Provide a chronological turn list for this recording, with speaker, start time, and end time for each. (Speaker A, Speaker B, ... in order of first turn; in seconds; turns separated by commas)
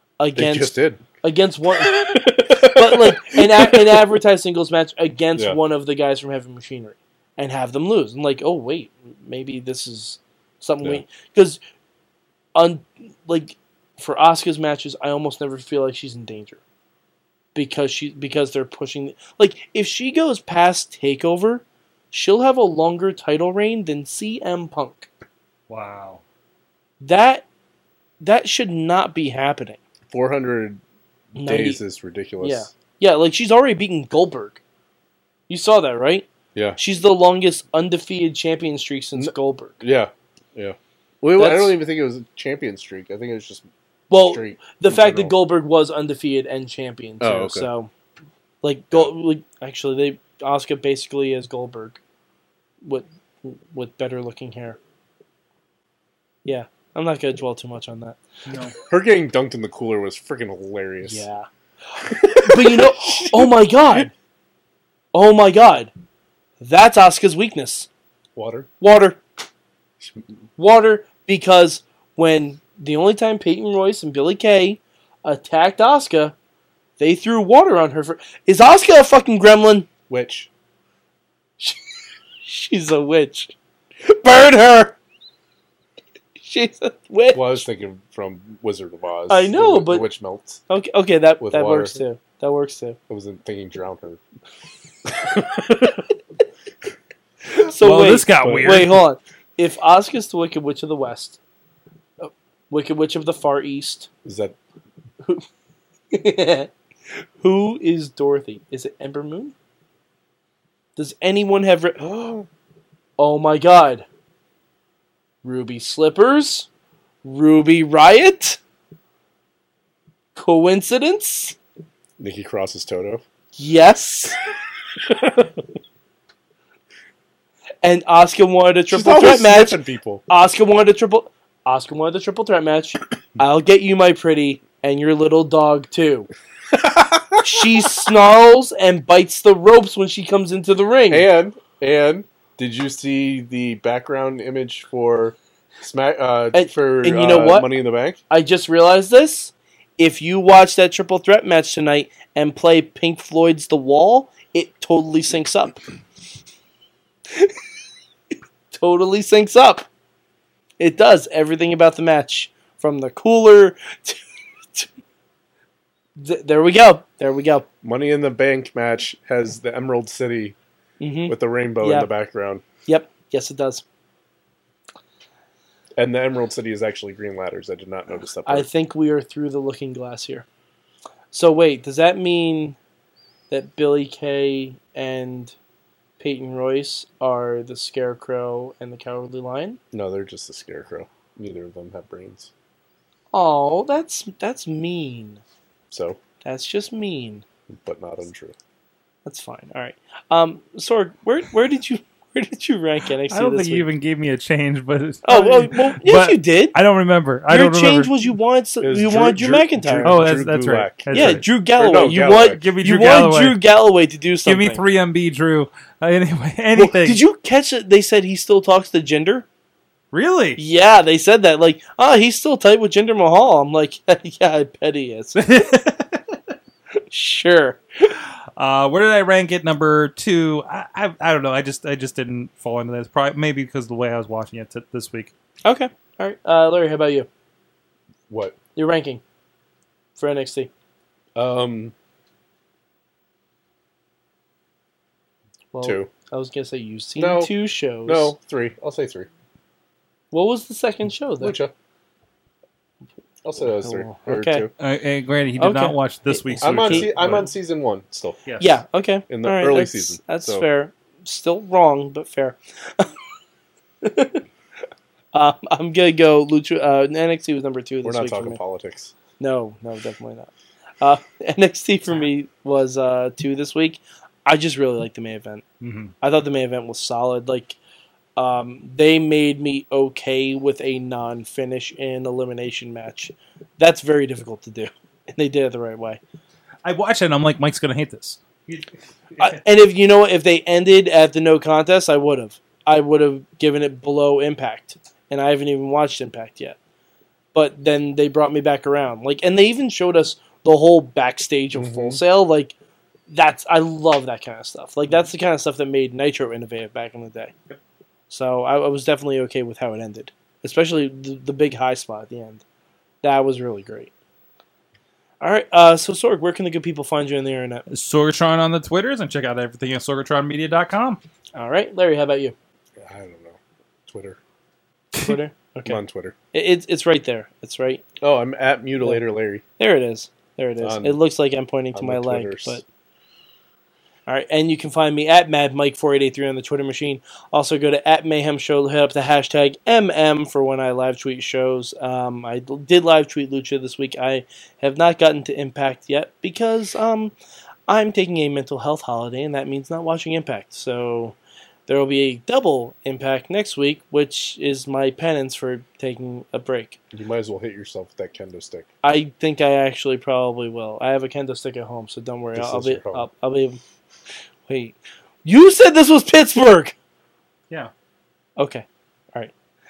Speaker A: 0.2-11.6, Speaker B: 0.3-1.0, Speaker B: 1.8-4.2, Speaker A: 12.6-16.6, Speaker A: 17.6-25.1, Speaker C: 25.7-26.2, Speaker A: 27.0-27.5, Speaker A: 28.2-29.8, Speaker B: 30.1-30.8, Speaker B: 31.3-32.7, Speaker A: 31.4-31.8, Speaker A: 32.4-34.6, Speaker A: 35.5-36.3, Speaker A: 36.8-39.8, Speaker B: 39.2-43.7, Speaker A: 41.4-41.8, Speaker A: 44.1-47.9, Speaker B: 44.2-45.4, Speaker B: 47.2-47.7, Speaker A: 48.6-52.0, Speaker A: 52.8-54.8, Speaker A: 56.5-58.7, Speaker C: 58.5-58.8, Speaker B: 58.9-61.3, Speaker A: 61.0-64.1, Speaker B: 62.1-64.1, Speaker A: 65.1-65.9, Speaker A: 66.6-67.9, Speaker B: 68.4-68.7, Speaker A: 68.8-69.2, Speaker A: 70.6-76.3, Speaker A: 77.0-79.9, Speaker B: 80.1-80.5, Speaker A: 82.5-85.0, Speaker A: 86.4-87.7, Speaker B: 87.3-90.6, Speaker A: 89.3-90.1, Speaker A: 90.7-93.0, Speaker B: 91.4-92.0, Speaker B: 93.1-94.2, Speaker B: 95.1-96.1, Speaker A: 97.5-101.4, Speaker C: 97.8-99.0, Speaker B: 98.4-98.8, Speaker A: 102.2-104.1, Speaker B: 104.2-104.6, Speaker A: 105.2-105.5, Speaker A: 106.1-109.5, Speaker A: 111.0-112.0, Speaker B: 112.0-112.5, Speaker A: 113.2-114.0, Speaker A: 115.4-116.7, Speaker A: 117.2-118.6, Speaker A: 120.4-121.6, Speaker B: 122.2-123.2, Speaker A: 123.6-124.4, Speaker B: 125.0-125.6, Speaker A: 127.8-136.3, Speaker B: 128.9-130.3, Speaker B: 136.7-137.9, Speaker A: 137.4-141.3, Speaker B: 141.1-148.2, Speaker A: 146.5-147.7, Speaker A: 148.3-155.8, Speaker A: 158.7-159.9, Speaker A: 160.8-164.2, Speaker A: 166.2-167.7, Speaker B: 167.8-170.6, Speaker A: 171.0-172.1, Speaker B: 171.3-172.7, Speaker A: 172.9-173.8, Speaker B: 176.0-178.7, Speaker A: 178.5-180.4, Speaker A: 181.3-182.8, Speaker A: 183.5-185.6, Speaker A: 186.2-189.8, Speaker B: 189.9-192.5, Speaker A: 193.3-195.4, Speaker B: 195.9-196.2, Speaker A: 196.4-197.4, Speaker B: 197.7-198.6, Speaker A: 199.3-203.9, Speaker C: 203.3-208.1, Speaker A: 205.2-206.8, Speaker A: 207.5-210.2, Speaker B: 208.8-212.6, Speaker C: 210.0-211.4, Speaker A: 211.1-214.8, Speaker C: 212.5-213.6, Speaker C: 214.4-217.2, Speaker A: 216.8-219.5, Speaker C: 220.1-220.6, Speaker A: 220.6-225.5, Speaker C: 225.4-226.2, Speaker A: 227.1-228.1, Speaker C: 228.6-235.3, Speaker A: 235.7-237.3, Speaker B: 238.3-238.6, Speaker A: 238.8-239.2, Speaker A: 240.2-240.7, Speaker B: 241.4-241.9, Speaker A: 245.7-248.3, Speaker B: 245.8-246.1, Speaker B: 247.2-247.5, Speaker B: 248.0-249.3, Speaker A: 250.3-251.6, Speaker B: 251.4-251.7, Speaker B: 253.4-254.7, Speaker A: 253.6-254.7, Speaker C: 254.8-257.5, Speaker A: 255.6-257.1, Speaker B: 256.6-258.7, Speaker A: 258.6-263.2, Speaker B: 259.3-260.6, Speaker A: 264.0-264.4, Speaker A: 265.3-268.6, Speaker B: 268.0-269.1, Speaker A: 269.4-270.5, Speaker A: 271.0-275.6, Speaker C: 275.8-276.1, Speaker A: 276.2-277.8, Speaker A: 278.4-286.2, Speaker C: 286.9-289.6, Speaker A: 289.4-296.8, Speaker A: 297.5-302.8, Speaker B: 301.7-302.2, Speaker A: 303.3-307.6, Speaker A: 308.3-312.6, Speaker A: 313.2-314.1, Speaker A: 315.4-317.9, Speaker C: 317.9-321.2, Speaker A: 321.6-322.6, Speaker B: 323.0-324.4, Speaker A: 325.2-326.0, Speaker B: 325.9-326.4, Speaker A: 326.5-328.0, Speaker B: 328.2-329.6, Speaker A: 329.8-332.8, Speaker B: 330.8-331.2, Speaker B: 331.9-332.8, Speaker A: 334.3-347.3, Speaker A: 347.9-351.4, Speaker A: 351.9-357.0, Speaker B: 357.1-358.9, Speaker A: 359.0-363.8, Speaker B: 362.6-363.3, Speaker A: 364.7-366.9, Speaker A: 368.6-369.5